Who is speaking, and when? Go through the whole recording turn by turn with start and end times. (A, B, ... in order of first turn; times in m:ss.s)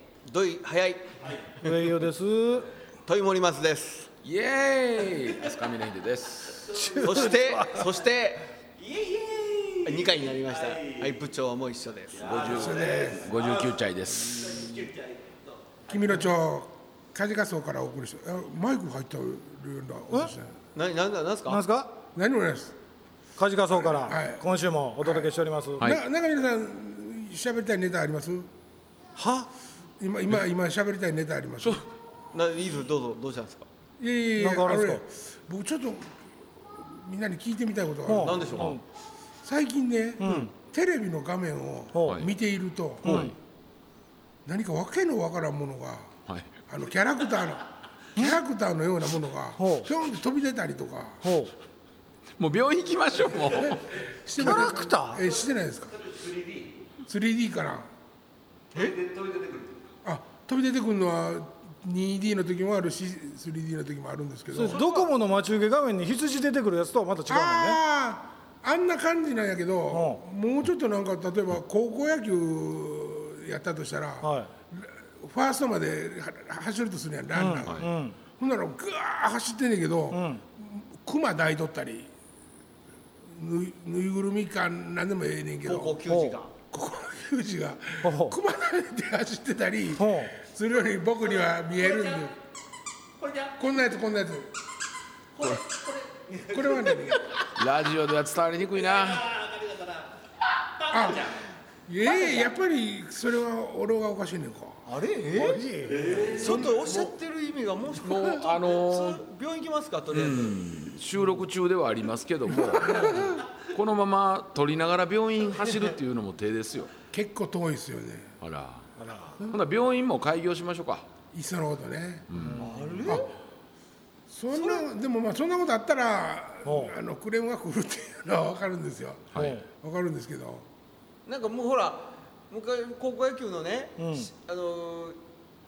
0:00.2-0:01.9 A
0:01.6-0:02.7 B
0:03.0-0:04.1 A
0:04.2-0:06.7 C
0:06.6-0:07.1 D
0:06.8-0:07.7 B
0:07.0-0:08.5 A
0:08.8-0:11.2 D
0:09.8-0:12.4 A
0:12.1-0:16.1 D
0:12.2-0:14.7 C
0:12.5-0:13.3 E
0:15.9-0:20.6 E
0:20.7-0:21.6 A
0:21.5-0:21.9 B
0:22.1-0:22.8 E
0:23.4-0:25.9 B
0:23.7-0:24.4 E
0:25.0-0:28.5 E
0:29.2-0:29.5 B
0:30.0-0:31.8 E
0:31.6-0:31.9 C
0:32.3-0:33.7 A
0:34.0-0:36.2 E
0:34.4-0:35.0 B
0:36.7-0:38.7 E
0:38.1-0:38.8 B
0:38.2-0:38.8 A
0:39.4-0:43.3 E
0:40.2-0:40.5 B
0:41.9-0:42.2 B
0:42.0-0:42.3 C
0:43.0-0:43.3 B
0:44.4-0:46.1 E
0:46.7-0:47.6 E
0:48.2-0:51.3 E
0:49.6-0:49.9 B
0:51.2-0:51.5 B
0:52.4-0:54.0 C
0:53.3-0:54.0 D
0:54.2-0:56.0 E
0:54.4-0:55.2 B
0:55.9-0:56.8 D
0:57.0-0:57.9 E
0:58.7-0:59.8 D
1:00.0-1:04.9 E
1:04.5-1:07.8 B
1:04.7-1:05.1 A
1:07.3-1:22.1 E
1:09.9-1:10.2 B
1:14.2-1:14.5 B
1:17.3-1:18.2 B
1:17.6-1:17.9 C
1:20.1-1:20.4 B
1:23.2-1:26.0 E
1:25.6-1:26.5 A
1:26.0-1:26.4 B
1:26.7-1:32.3 E
1:28.0-1:28.4 B
1:30.0-1:30.4 B
1:31.8-1:32.2 D
1:33.2-1:33.5 D
1:33.6-1:34.5 E
1:35.4-1:37.5 D
1:36.5-1:37.3 E
1:37.6-1:39.3 C
1:38.8-1:40.1 D
1:40.7-1:41.4 D
1:40.9-1:41.4 E
1:41.9-1:44.8 E
1:42.0-1:42.5 A
1:44.8-1:45.7 A
1:45.4-1:46.7 B
1:45.9-1:46.6 D
1:46.3-1:50.6 A
1:48.0-1:49.2 C
1:50.1-1:56.9 C
1:52.7-1:53.3 E
1:57.1-1:58.4 E
1:58.4-1:58.9 C
1:59.0-1:59.4 B
1:59.5-2:01.1 C
2:01.3-2:02.3 E
2:02.3-2:03.2 C
2:02.4-2:03.2 B
2:02.6-2:03.3 A
2:04.3-2:10.6 E
2:04.5-2:04.8 A
2:06.6-2:06.9 B
2:09.3-2:09.6 C
2:09.3-2:09.6 B
2:11.2-2:15.2 A
2:14.0-2:14.3 B